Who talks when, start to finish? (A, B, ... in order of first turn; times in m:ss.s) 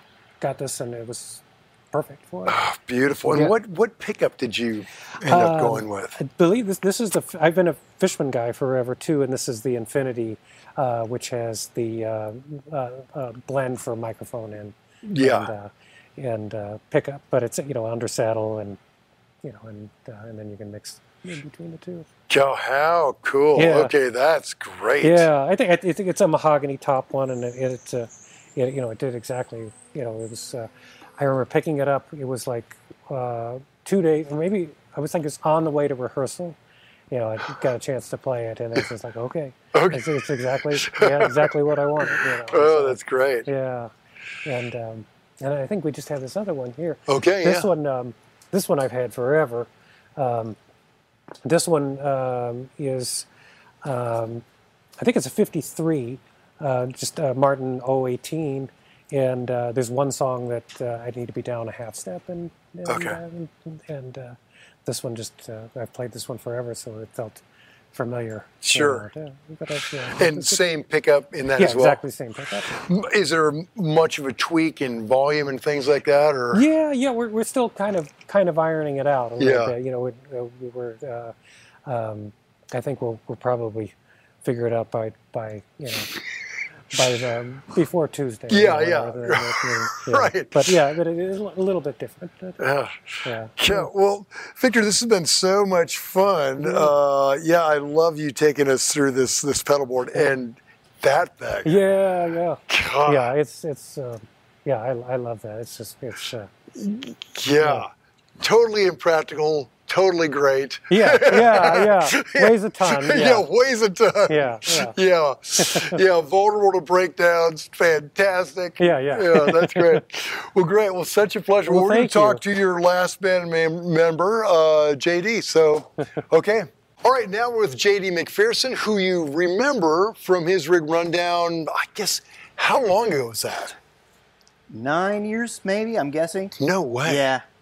0:00.4-0:02.6 A
0:02.5-0:06.2 B
0:03.2-0:03.5 A
0:05.2-0:18.8 A
0:15.0-0:15.5 B
0:19.4-0:22.1 A
0:22.3-0:25.3 B
0:23.5-0:23.9 A
0:25.0-0:36.6 A
0:37.1-0:43.9 A
0:39.7-0:43.5 B
0:44.4-0:50.6 A
0:47.1-0:47.7 B
0:51.4-0:53.3 A
0:53.8-0:54.4 A
0:55.0-1:07.4 A
1:02.9-1:03.2 B
1:07.9-1:10.6 A
1:08.6-1:09.1 B
1:10.1-1:12.0 B
1:11.6-1:12.8 A
1:12.7-1:16.6 B
1:16.5-1:21.3 A
1:19.4-1:19.7 B
1:21.8-1:26.1 A
1:26.9-1:32.6 A
1:28.5-1:30.8 B
1:32.6-1:41.8 B
1:33.2-1:33.9 A
1:36.6-1:36.9 A
1:41.6-1:46.5 A
1:42.7-1:43.3 B
1:46.7-1:47.9 B
1:47.6-1:47.8 A
1:48.4-2:13.8 B
1:50.9-1:53.4 A
1:54.3-1:55.0 A
1:55.6-1:56.0 A
1:58.8-2:00.0 A
2:01.7-2:02.4 A
2:14.7-2:17.4 C
2:16.6-2:17.3 B